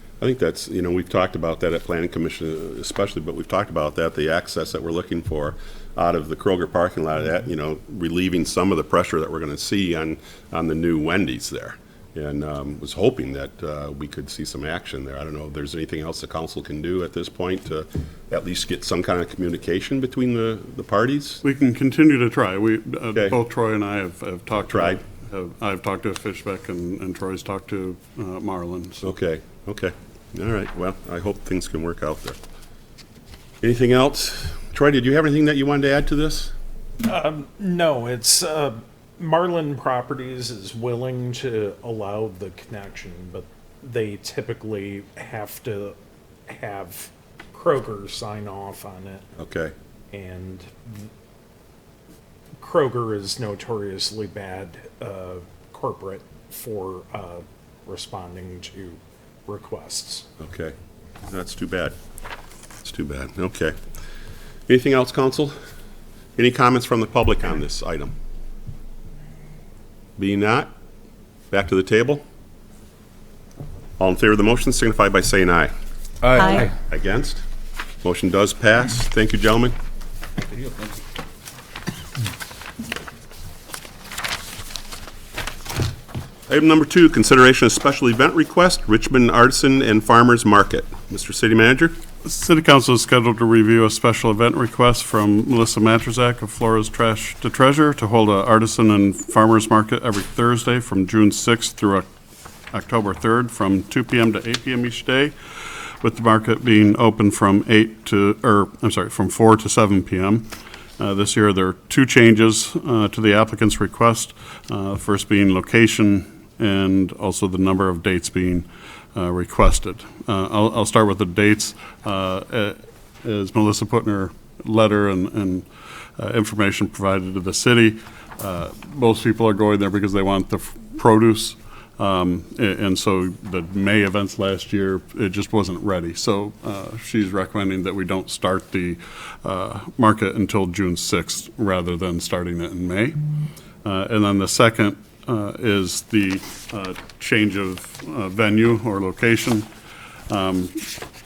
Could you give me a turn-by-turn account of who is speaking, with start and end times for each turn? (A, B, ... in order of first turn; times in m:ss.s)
0:00.2-0:21.4 A
0:21.4-0:29.0 B
0:24.7-0:25.0 A
0:29.0-0:32.4 A
0:33.6-0:36.5 A
0:37.0-0:46.0 C
0:46.5-0:49.2 C
0:49.4-0:49.7 A
0:50.1-0:51.1 C
0:52.6-1:00.2 C
1:00.4-1:00.8 A
1:01.3-1:02.0 A
1:02.8-1:03.8 A
1:04.7-1:05.6 A
1:06.4-1:08.1 A
1:10.2-1:10.7 A
1:11.5-1:12.2 A
1:14.0-1:15.7 A
1:16.5-1:17.4 A
1:18.0-1:19.8 A
1:26.5-1:32.0 A
1:32.2-1:42.1 B
1:42.7-2:05.7 B
2:06.2-2:23.2 B
2:23.8-2:29.7 B
2:30.3-2:30.9 B